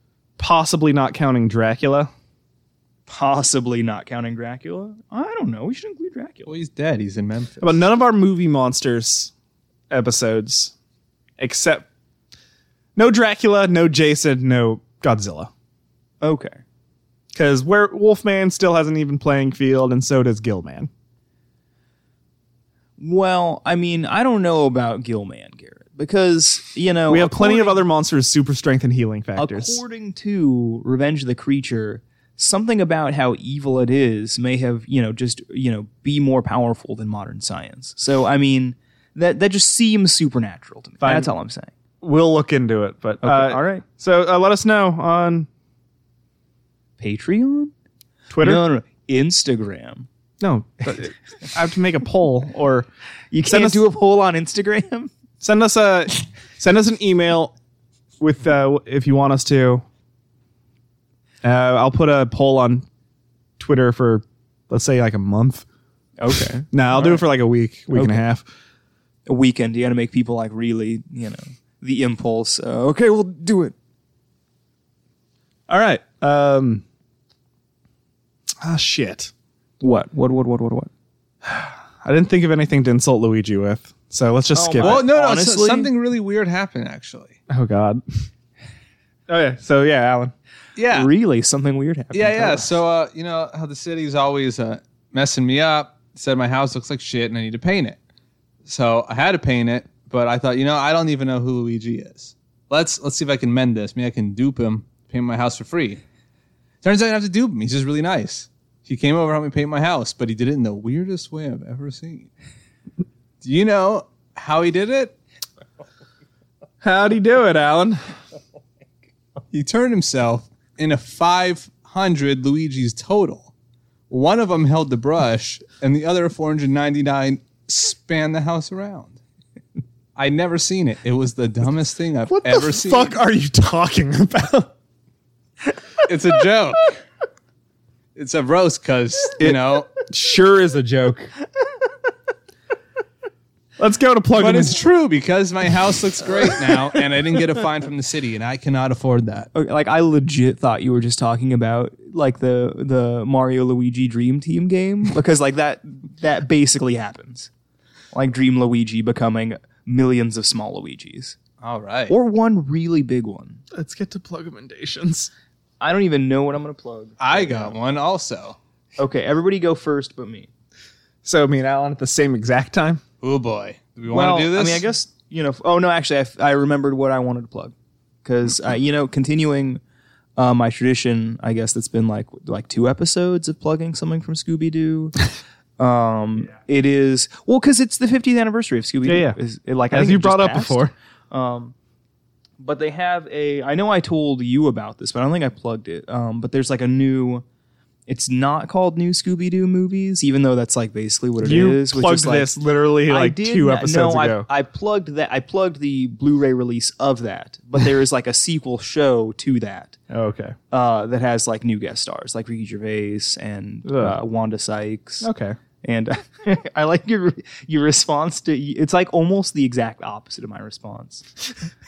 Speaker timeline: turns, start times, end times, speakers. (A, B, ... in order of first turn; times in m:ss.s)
0:00.4-0:02.1 A
0:03.1-0:06.5 B
0:06.5-0:07.8 C
0:07.6-0:09.3 A
0:09.9-0:10.7 A
0:11.4-0:11.9 A
0:13.0-0:15.5 A
0:16.2-0:16.6 B
0:17.3-0:20.9 A
0:23.0-0:27.8 B
0:27.1-0:29.8 A
0:29.4-0:41.7 B
0:41.0-0:41.3 A
0:42.0-0:45.5 A
0:43.2-0:43.8 B
0:47.0-0:47.7 B
0:48.3-0:48.6 A
0:48.4-0:50.1 B
0:50.4-0:52.9 A
0:53.3-0:55.1 B
0:53.4-0:53.8 A
0:55.4-0:57.5 A
0:58.2-0:59.8 A
1:01.4-1:02.9 A
1:03.6-1:05.6 A
1:06.2-1:07.3 B
1:06.7-1:08.5 A
1:07.9-1:08.2 B
1:09.3-1:13.7 B
1:15.7-1:16.8 A
1:18.6-1:19.3 A
1:19.8-1:20.9 B
1:21.4-1:25.0 A
1:24.5-1:25.9 B
1:24.8-1:27.4 C
1:27.5-1:28.0 A
1:29.3-1:30.3 A
1:30.8-1:31.1 C
1:30.9-1:32.7 B
1:32.1-1:38.0 C
1:38.6-1:46.0 C
1:46.8-1:52.3 C
1:53.4-1:55.2 C
1:56.8-1:58.0 A
1:59.5-2:03.5 C
2:04.1-2:09.2 C
2:10.2-2:13.2 C
2:12.3-2:14.7 A
2:16.1-2:17.0 C
2:18.2-2:19.9 C
2:19.4-2:21.3 A
2:23.8-2:24.8 A
2:24.4-2:29.5 C
2:29.5-2:37.5 B
2:38.1-2:41.4 B
2:41.6-2:42.2 C
2:42.1-2:43.6 B
2:43.7-2:45.3 A
2:45.8-2:47.8 B
2:47.2-2:48.6 C
2:49.0-2:50.5 B
2:51.2-2:53.0 A
2:53.2-2:54.9 C
2:54.1-2:57.7 B
2:58.2-2:59.8 B
3:00.4-3:05.2 B
3:05.8-3:11.8 B
3:09.1-3:09.4 A
3:09.9-3:10.9 A
3:12.6-3:17.4 B
3:18.1-3:22.5 B
3:21.4-3:24.5 A
3:23.1-3:30.0 B
3:30.1-3:30.6 A
3:30.7-3:35.3 B
3:33.8-3:34.2 A
3:35.2-3:35.6 A
3:35.8-3:41.3 B